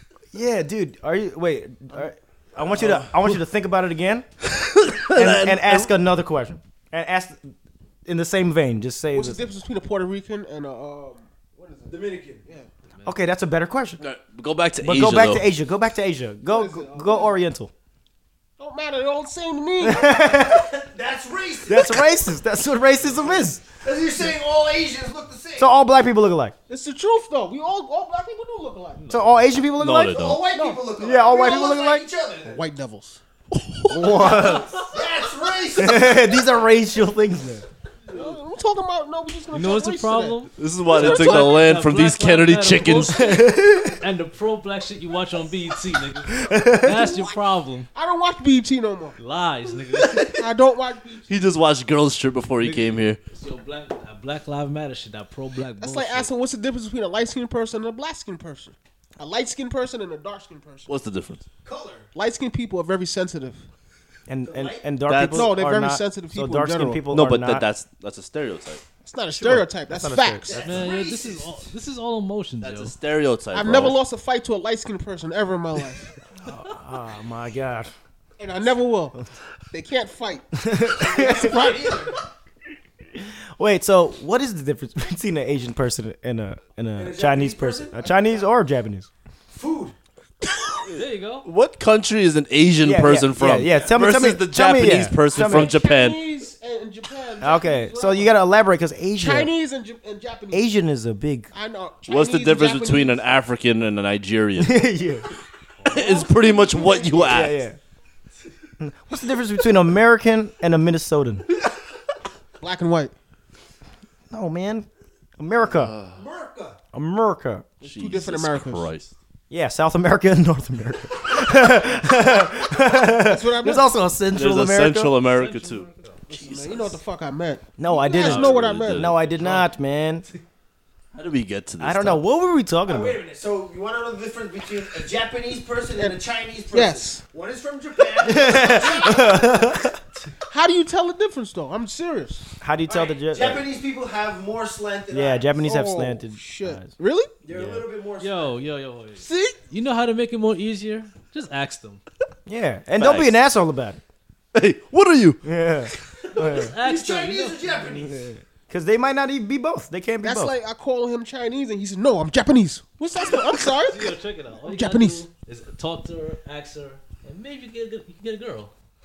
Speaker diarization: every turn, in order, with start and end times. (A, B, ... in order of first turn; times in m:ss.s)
0:00.3-0:04.3 A
0:02.8-0:03.2 B
0:04.6-0:05.9 B
0:05.1-0:07.5 A
0:08.1-0:09.4 A
0:09.1-0:12.7 C
0:11.9-0:12.4 D
0:12.9-0:13.2 E
0:13.1-0:14.0 A
0:14.0-0:15.5 B
0:14.8-0:17.7 A
0:16.5-0:17.4 C
0:18.6-0:20.5 C
0:19.8-0:20.7 A
0:20.5-0:22.2 D
0:21.6-0:23.6 A
0:23.2-0:23.4 E
0:23.7-0:25.7 D
0:25.6-0:26.6 A
0:26.7-0:29.1 C
0:29.0-0:29.4 E
0:29.1-0:30.3 A
0:29.8-0:30.4 B
0:30.1-0:32.6 D
0:30.5-0:31.0 C
0:31.0-0:32.1 A
0:32.4-0:33.2 C
0:33.6-0:34.1 B
0:33.9-0:34.8 A
0:33.9-0:34.7 C
0:34.7-0:36.3 D
0:35.8-0:37.7 A
0:38.1-0:41.7 C
0:39.5-0:47.9 E
0:40.6-0:43.4 B
0:43.0-0:44.0 A
0:46.4-0:46.9 A
0:46.8-0:47.4 C
0:47.9-0:49.2 C
0:49.2-0:50.3 E
0:50.0-0:50.3 B
0:50.3-0:51.3 C
0:51.3-0:53.2 B
0:52.6-0:56.3 E
0:55.8-1:00.9 C
1:00.9-1:01.4 B
1:01.6-1:02.1 D
1:02.2-1:03.6 C
1:04.3-1:07.7 A
1:04.4-1:04.9 D
1:05.1-1:05.6 B
1:05.3-1:07.0 C
1:07.1-1:08.8 B
1:09.0-1:10.7 C
1:09.3-1:10.6 A
1:10.5-1:11.7 D
1:10.5-1:12.9 E
1:12.6-1:14.0 B
1:13.5-1:16.1 C
1:16.4-1:17.9 A
1:18.4-1:19.2 C
1:19.7-1:22.1 C
1:20.6-1:21.7 A
1:21.0-1:22.2 D
1:23.2-1:29.1 A
1:27.0-1:28.3 D
1:29.5-1:29.9 D
1:30.8-1:36.3 B
1:31.0-1:31.5 E
1:32.8-1:35.8 A
1:33.5-1:34.0 D
1:35.4-1:38.3 C
1:37.4-1:39.5 A
1:39.2-1:40.7 C
1:40.5-1:41.5 A
1:41.5-1:43.4 C
1:42.1-1:44.8 B
1:44.6-1:45.3 A
1:45.8-1:46.3 E
1:45.8-1:47.5 C
1:45.9-1:47.6 B
1:47.2-1:47.8 A
1:48.8-1:51.5 A
1:52.6-1:53.1 C
1:54.3-1:55.9 A
1:55.7-1:56.2 B
1:56.1-1:56.8 D
1:56.9-1:57.7 A
1:57.8-1:59.1 B
1:57.8-1:58.9 C
1:59.5-2:05.2 A
2:03.1-2:03.9 C
2:04.3-2:07.0 B
2:05.2-2:06.2 E
2:06.3-2:09.1 C
2:07.8-2:10.3 A
2:08.2-2:09.2 B
2:09.4-2:09.7 E
2:11.1-2:12.2 B
2:11.8-2:13.2 A
2:12.9-2:20.0 D
2:16.0-2:17.2 C
2:18.2-2:20.0 A
2:20.5-2:22.5 C
2:22.6-2:23.6 A
2:22.9-2:25.6 D
2:25.1-2:26.9 A
2:25.6-2:27.3 C
2:27.4-2:28.6 D
2:27.6-2:27.8 A
2:28.2-2:32.0 E
2:29.2-2:29.6 C
2:32.5-2:34.0 A
2:33.0-2:33.4 B
2:34.5-2:35.4 B
2:35.4-2:36.7 A
2:36.4-2:37.7 E
2:36.4-2:38.3 D
2:38.0-2:40.6 A
2:40.2-2:45.3 C
2:43.8-2:48.7 E